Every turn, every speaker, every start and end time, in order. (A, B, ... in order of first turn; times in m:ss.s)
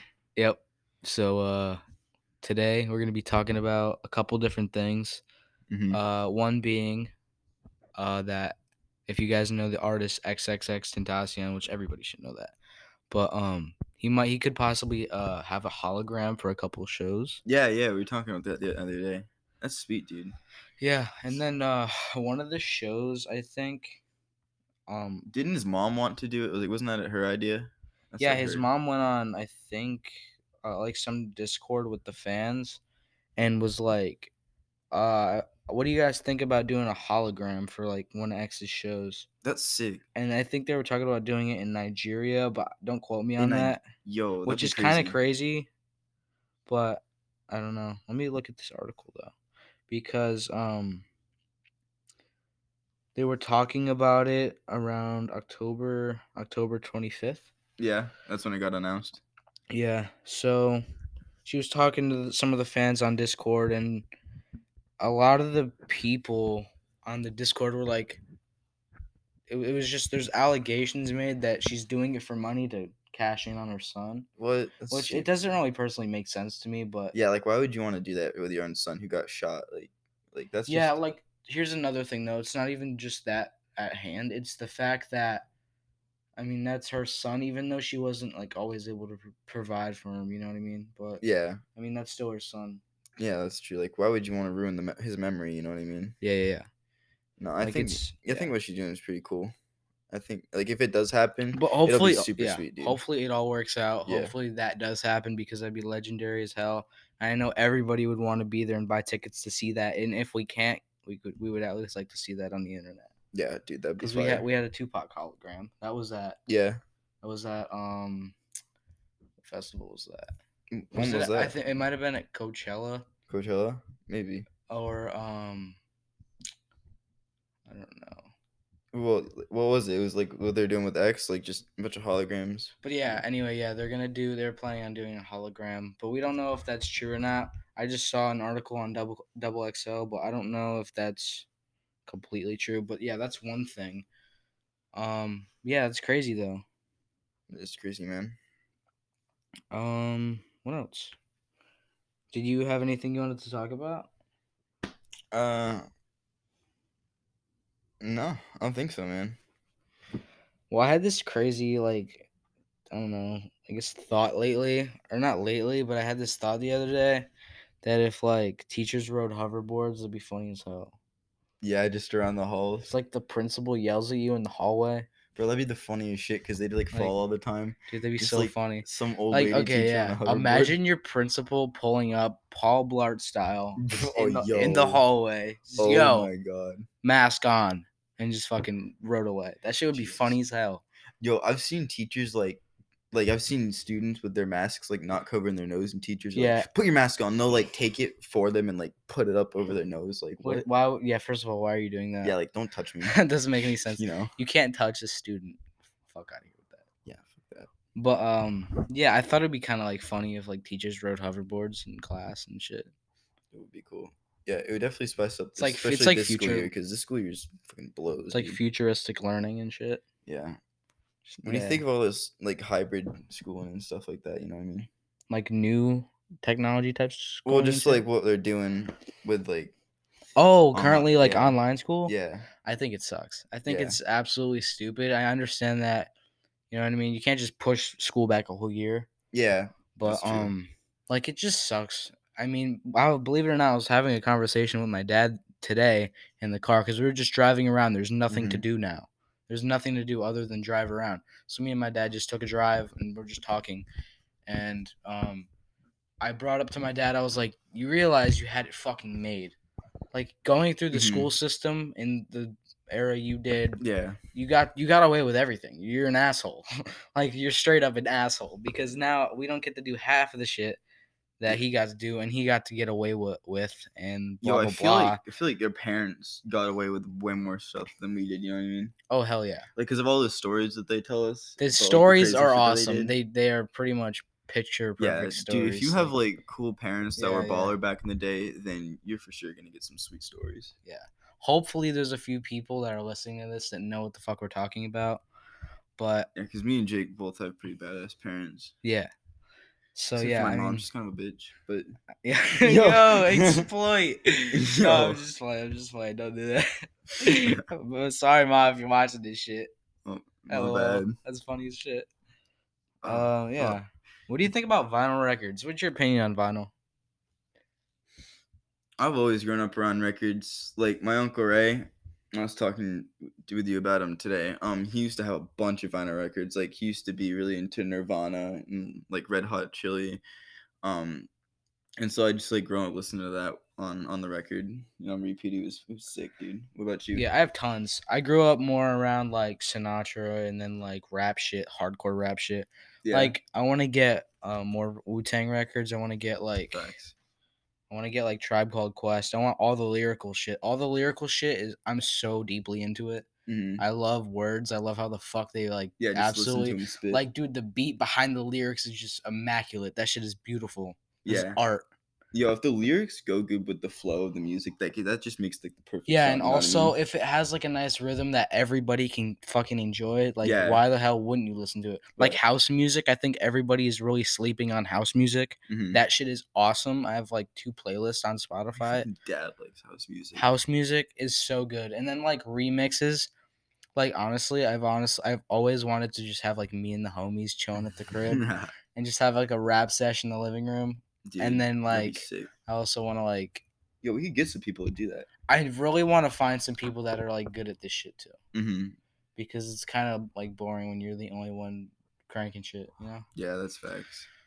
0:00.4-0:01.8 A
0:02.4-0:05.2 A
0:05.7-0:06.0 B
0:05.9-0:07.1 A
0:08.0-0:12.6 A
0:13.1-0:17.4 A
0:17.4-0:20.4 B
0:20.8-0:24.0 A
0:24.9-0:25.3 A
0:25.3-0:28.7 B
0:28.2-0:32.8 A
0:33.4-0:34.3 A
0:34.9-0:39.3 A
0:39.4-0:40.0 B
0:40.2-0:43.8 A
0:43.4-0:45.2 B
0:44.4-0:45.7 A
0:46.7-0:49.3 A
0:49.9-0:51.1 A
0:53.2-0:57.5 A
0:57.8-0:59.2 B
0:59.7-1:00.8 A
1:01.4-1:04.1 A
1:05.0-1:08.2 A
1:09.5-1:14.3 A
1:14.4-1:15.3 B
1:14.9-1:17.1 A
1:17.1-1:21.0 B
1:20.7-1:25.5 A
1:26.4-1:31.2 A
1:31.2-1:31.6 B
1:31.8-1:32.8 A
1:33.2-1:36.2 B
1:36.2-1:36.7 A
1:37.4-1:39.5 B
1:37.6-1:38.5 A
1:40.1-1:43.0 B
1:41.5-1:53.1 A
1:44.1-1:44.3 B
1:53.3-1:54.5 B
1:54.0-1:56.4 A
1:56.5-1:56.8 B
1:57.2-1:58.4 A
1:59.4-2:00.3 A
2:00.7-2:01.5 B
2:00.9-2:03.1 A
2:03.3-2:04.5 B
2:04.7-2:05.8 A
2:07.7-2:08.3 A
2:08.9-2:12.8 B
2:12.8-2:21.5 A
2:22.1-2:24.1 A
2:24.9-2:26.6 A
2:27.5-2:28.4 B
2:29.7-2:31.2 A
2:32.3-2:34.1 A
2:35.3-2:35.9 B
2:38.0-2:39.4 B
2:40.7-2:42.3 A
2:42.9-2:47.3 A
2:47.8-2:51.0 A
2:51.6-2:52.9 B
2:52.8-2:55.1 A
2:55.4-3:00.8 B
2:57.9-3:06.3 A
3:03.8-3:05.0 B
3:05.8-3:06.9 B
3:07.0-3:10.8 A
3:09.9-3:10.4 B
3:11.2-3:20.7 B
3:16.3-3:16.7 A
3:20.4-3:22.4 A
3:22.2-3:23.2 B
3:23.0-3:26.8 A
3:23.9-3:24.3 B
3:27.0-3:27.7 B
3:28.0-3:32.9 A
3:33.5-3:38.6 B
3:35.6-3:36.7 A
3:38.3-3:40.0 A
3:40.3-3:40.6 B
3:41.4-3:44.9 B
3:41.4-3:41.8 A
3:45.3-3:48.0 A
3:47.5-3:49.8 B
3:50.4-3:52.1 A
3:50.7-3:52.5 B
3:52.6-3:56.1 A
3:53.7-3:54.0 B
3:56.7-3:59.1 A
3:59.3-4:00.5 B
4:00.0-4:13.9 A
4:08.3-4:08.6 B
4:14.5-4:15.5 A
4:16.2-4:19.6 A
4:20.1-4:23.8 A
4:20.9-4:21.3 B
4:23.8-4:24.2 B
4:24.3-4:30.8 A
4:31.4-4:35.2 A
4:34.4-4:38.9 B
4:39.1-4:39.7 A
4:39.8-4:43.1 B
4:41.6-4:46.2 A
4:45.0-4:50.7 B
4:47.2-4:47.8 A
4:50.9-4:55.2 A
4:56.0-4:56.3 A
4:56.4-4:58.7 B
4:58.8-4:59.1 A
5:00.0-5:00.9 A
5:00.2-5:01.9 B
5:02.2-5:09.7 A
5:02.6-5:03.7 B
5:04.5-5:05.2 B
5:07.3-5:07.6 B
5:10.0-5:11.2 B
5:10.5-5:12.1 A
5:13.0-5:13.8 B
5:13.0-5:16.7 A
5:19.0-5:30.2 B
5:30.8-5:31.3 B
5:32.0-5:37.3 B
5:37.1-5:46.9 A
5:43.0-5:43.4 B
5:46.7-5:47.1 B
5:47.9-5:53.3 A
5:53.5-5:53.8 B
5:53.8-6:01.9 A
5:56.0-5:57.2 B
6:01.2-6:01.6 B
6:02.3-6:07.0 B
6:06.1-6:19.1 A
6:10.4-6:10.8 B
6:15.7-6:16.0 B
6:18.8-6:20.5 B
6:20.4-6:23.3 A
6:24.0-6:28.4 A
6:28.2-6:28.7 B
6:29.0-6:33.6 A
6:31.3-6:32.5 B
6:34.0-6:35.3 B
6:35.5-6:38.4 A
6:38.5-6:39.0 B
6:39.4-6:43.2 A
6:43.4-6:44.3 B